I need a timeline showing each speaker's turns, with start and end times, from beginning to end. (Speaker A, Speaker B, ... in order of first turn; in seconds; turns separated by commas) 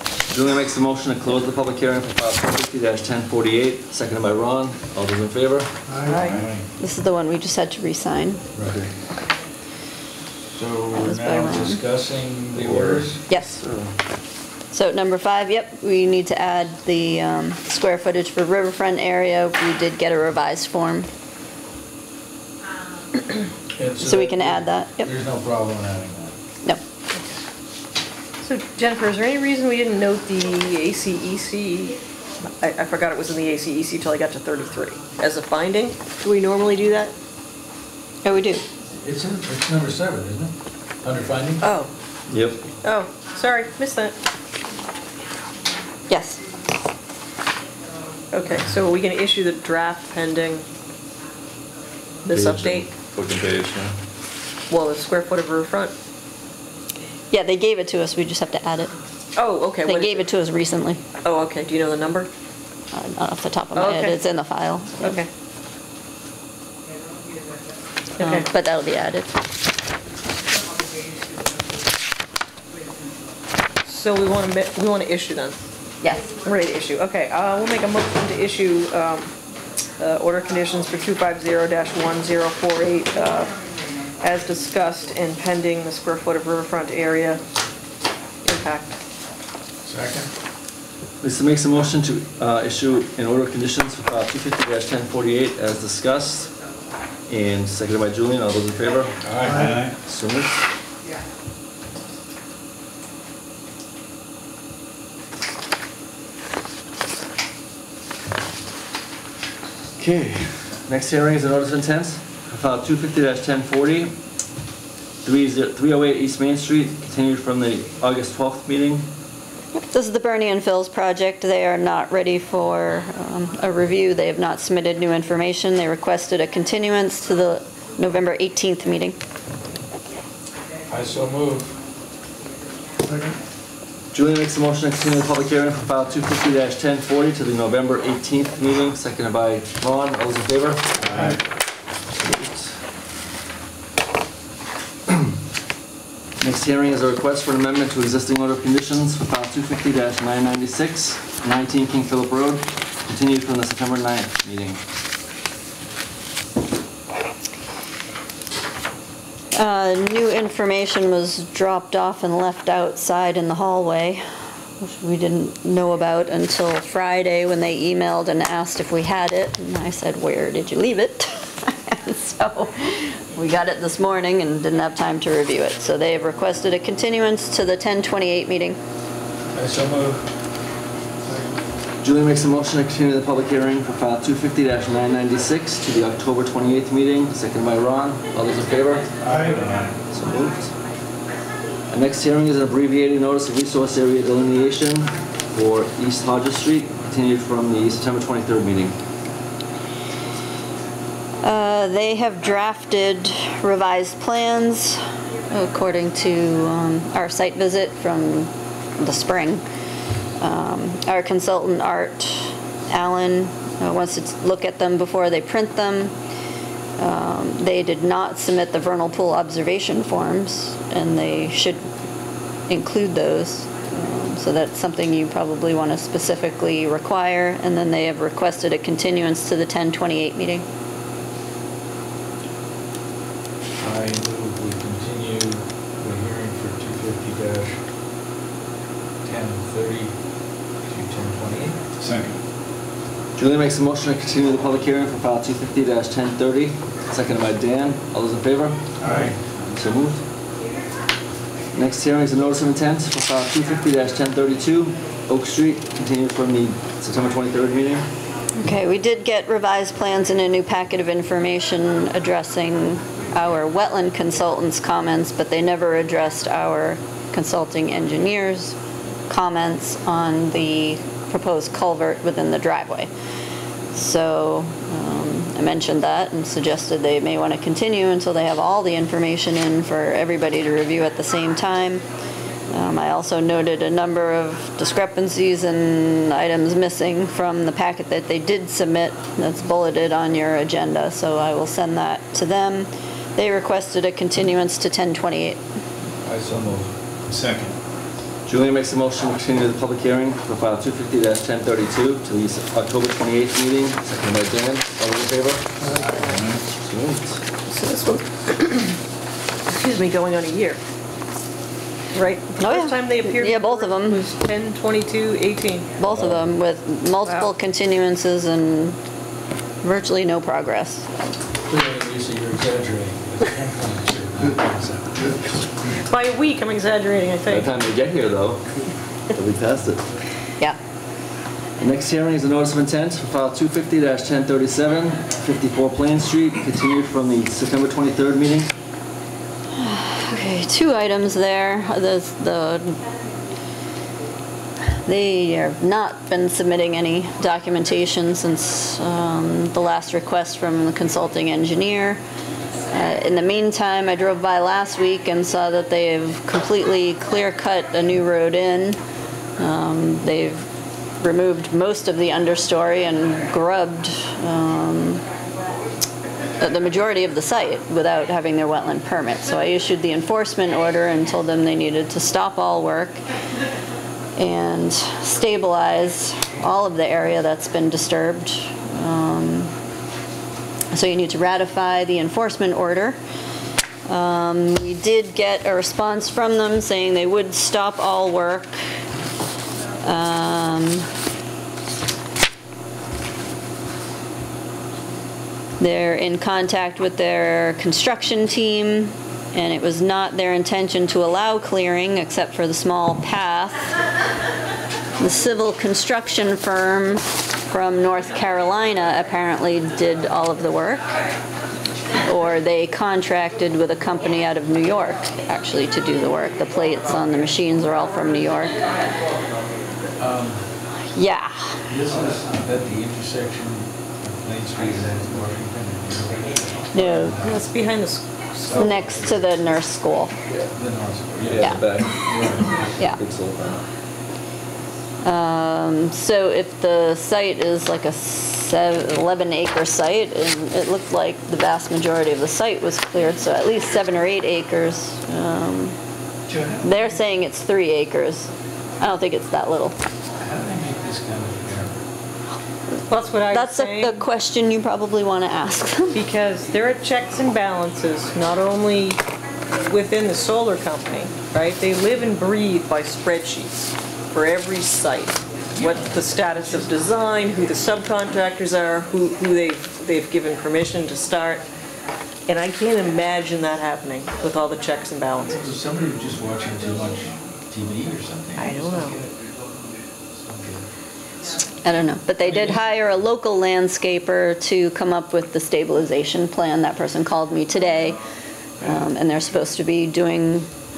Speaker A: 0.3-5.7, Speaker B: 5.9-6.5, Speaker C: 6.1-6.3, Speaker D: 6.2-6.7, Speaker E: 6.8-8.4, Speaker D: 8.5-8.8, Speaker A: 8.6-8.9, Speaker D: 10.5-13.2, Speaker E: 11.0-11.8, Speaker A: 12.5-13.9, Speaker E: 13.3-13.6, Speaker E: 14.7-21.1, Speaker D: 23.8-26.3, Speaker E: 24.0-25.1, Speaker C: 28.4-32.0, Speaker C: 32.6-37.1, Speaker E: 38.2-38.6, Speaker D: 38.9-41.6, Speaker C: 41.6-41.9, Speaker A: 42.3-42.6, Speaker C: 42.8-44.1, Speaker E: 46.1-46.4, Speaker C: 48.3-50.6, Speaker C: 52.2-52.9, Speaker A: 52.3-53.9, Speaker B: 53.3-53.7, Speaker C: 54.7-55.9, Speaker E: 57.3-58.9, Speaker C: 59.4-60.3, Speaker E: 59.9-61.0, Speaker C: 61.2-62.3, Speaker E: 62.9-65.2, Speaker C: 63.7-64.2, Speaker C: 65.0-65.3, Speaker C: 68.2-68.5, Speaker E: 68.2-69.3, Speaker C: 73.8-75.6, Speaker E: 76.0-76.3, Speaker C: 76.4-79.3, Speaker C: 80.0-83.6, Speaker C: 84.2-87.4, Speaker C: 88.4-88.9, Speaker D: 89.8-90.3, Speaker A: 91.2-96.5, Speaker A: 97.3-100.5, Speaker D: 99.2-99.8, Speaker B: 99.4-100.0, Speaker A: 110.0-114.2, Speaker A: 115.2-119.1, Speaker E: 119.7-129.2, Speaker D: 130.9-131.7, Speaker A: 134.1-141.3, Speaker D: 140.9-141.4, Speaker B: 141.1-141.4, Speaker A: 142.2-142.8, Speaker A: 146.4-154.8, Speaker E: 159.5-164.2, Speaker E: 164.8-178.8, Speaker D: 179.5-180.2, Speaker B: 181.2-181.5, Speaker A: 182.0-189.2, Speaker D: 189.2-189.9, Speaker B: 189.2-189.8, Speaker A: 190.1-190.7, Speaker A: 191.9-198.9, Speaker E: 201.4-209.6, Speaker E: 210.4-216.1, Speaker E: 217.0-221.8, Speaker E: 222.7-230.7, Speaker D: 233.8-237.8, Speaker D: 239.2-240.2, Speaker D: 240.8-241.8, Speaker B: 242.0-242.4, Speaker A: 243.3-249.0, Speaker B: 249.0-249.8, Speaker D: 249.0-249.4, Speaker A: 249.7-250.2, Speaker A: 251.7-258.1, Speaker E: 258.6-268.8, Speaker E: 269.3-273.1, Speaker E: 273.9-282.1, Speaker E: 282.7-295.6, Speaker D: 296.2-296.9, Speaker B: 297.3-297.8, Speaker A: 298.4-305.7, Speaker B: 305.8-306.6, Speaker D: 306.0-306.3, Speaker A: 306.8-307.4, Speaker C: 307.7-308.9, Speaker C: 309.7-310.8, Speaker C: 312.1-315.9, Speaker E: 312.6-314.2, Speaker E: 316.0-319.0, Speaker D: 316.1-316.4, Speaker C: 317.2-317.5, Speaker E: 319.8-321.1, Speaker D: 321.7-325.4, Speaker C: 326.0-327.7, Speaker A: 327.5-328.7, Speaker A: 329.3-330.1, Speaker A: 331.8-338.7, Speaker E: 339.7-343.0, Speaker E: 345.0-352.2, Speaker E: 352.9-359.0, Speaker E: 359.6-360.7, Speaker E: 361.2-365.2, Speaker E: 366.6-373.2, Speaker E: 374.4-379.7, Speaker E: 380.9-383.2, Speaker E: 384.1-388.8, Speaker E: 390.0-391.1, Speaker E: 395.8-404.0, Speaker E: 405.2-411.1, Speaker E: 412.2-418.9, Speaker D: 420.2-420.6, Speaker E: 421.1-421.9, Speaker D: 421.9-427.7, Speaker E: 426.9-427.4, Speaker C: 427.4-429.1, Speaker D: 428.6-429.4, Speaker E: 428.7-430.3, Speaker A: 430.5-430.7, Speaker D: 430.7-433.0, Speaker A: 431.4-433.8, Speaker E: 431.6-432.2, Speaker E: 435.2-445.9, Speaker D: 446.5-447.2, Speaker E: 446.8-450.0, Speaker D: 450.4-452.0, Speaker C: 453.1-454.1, Speaker E: 453.5-456.2, Speaker C: 456.1-471.6, Speaker D: 465.8-466.8, Speaker C: 472.5-475.6, Speaker D: 475.4-479.4, Speaker C: 478.6-479.2, Speaker D: 480.4-480.8, Speaker E: 481.8-488.2, Speaker D: 482.5-482.8, Speaker E: 488.8-490.7